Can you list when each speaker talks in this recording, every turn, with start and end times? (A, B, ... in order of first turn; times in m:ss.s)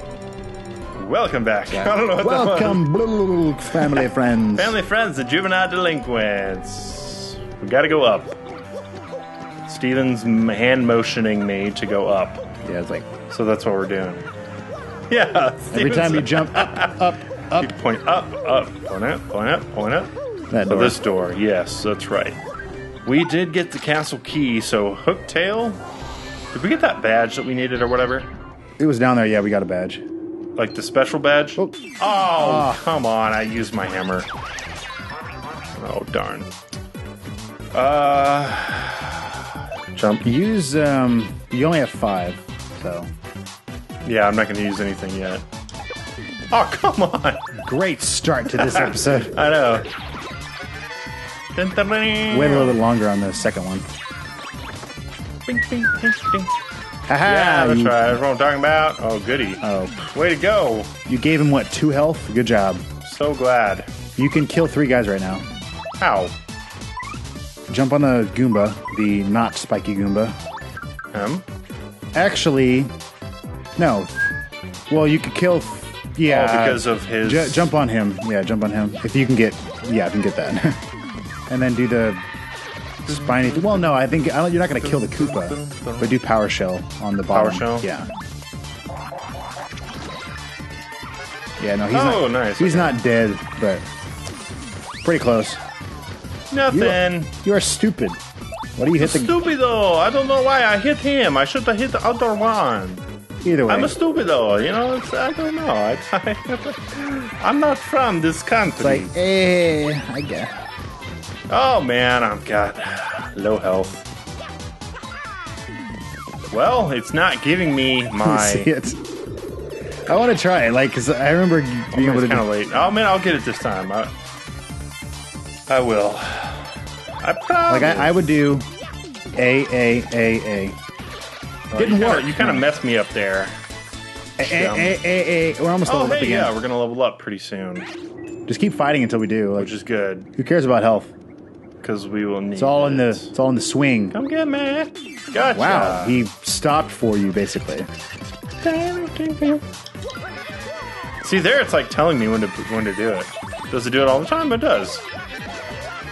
0:01.0-0:02.8 A
0:01.7-0:04.7 B
0:03.6-0:08.4 A
0:09.6-0:12.4 A
0:12.6-0:13.1 B
0:13.3-0:14.2 A
0:15.1-0:17.0 A
0:15.7-0:17.7 B
0:17.5-0:20.1 A
0:20.5-0:21.0 B
0:20.6-0:22.4 A
0:23.0-0:25.8 A
0:26.5-0:28.3 A
0:28.8-0:30.0 B
0:30.6-0:34.3 A
0:32.3-0:32.8 B
0:35.8-0:36.5 A
0:37.7-0:40.3 A
0:40.2-0:43.1 B
0:44.0-0:45.4 A
0:46.5-0:47.5 A
0:47.6-0:49.3 B
0:48.5-0:49.8 A
0:51.5-0:52.7 A
0:52.3-0:53.9 B
0:55.4-0:56.5 A
0:57.1-0:58.2 B
0:57.2-1:00.9 A
0:59.6-1:00.1 B
1:01.1-1:02.8 B
1:03.0-1:03.9 A
1:04.2-1:05.4 B
1:06.0-1:06.3 A
1:07.7-1:10.4 B
1:11.1-1:11.4 A
1:12.1-1:12.9 B
1:13.8-1:14.1 B
1:14.9-1:20.8 B
1:16.2-1:17.7 A
1:21.5-1:22.2 B
1:23.0-1:28.1 B
1:23.1-1:26.2 A
1:27.3-1:27.9 A
1:31.6-1:33.8 B
1:31.9-1:33.0 A
1:35.0-1:35.6 B
1:36.5-1:37.3 A
1:36.7-1:38.2 B
1:38.8-1:39.3 B
1:39.0-1:43.0 A
1:43.4-1:43.9 B
1:43.7-1:49.1 A
1:48.8-1:50.6 B
1:51.5-1:54.0 A
1:56.5-1:58.7 A
1:58.2-1:59.0 B
2:00.1-2:02.4 B
2:01.9-2:04.1 A
2:05.7-2:08.3 A
2:07.7-2:08.6 B
2:09.3-2:10.8 B
2:11.7-2:13.5 A
2:11.8-2:12.6 B
2:14.4-2:16.5 B
2:14.4-2:15.0 A
2:15.8-2:17.9 A
2:18.5-2:19.7 B
2:19.5-2:20.3 A
2:20.4-2:21.1 B
2:21.8-2:23.3 A
2:22.6-2:24.2 B
2:24.1-2:26.2 A
2:25.5-2:27.9 B
2:28.6-2:29.6 A
2:31.2-2:35.0 A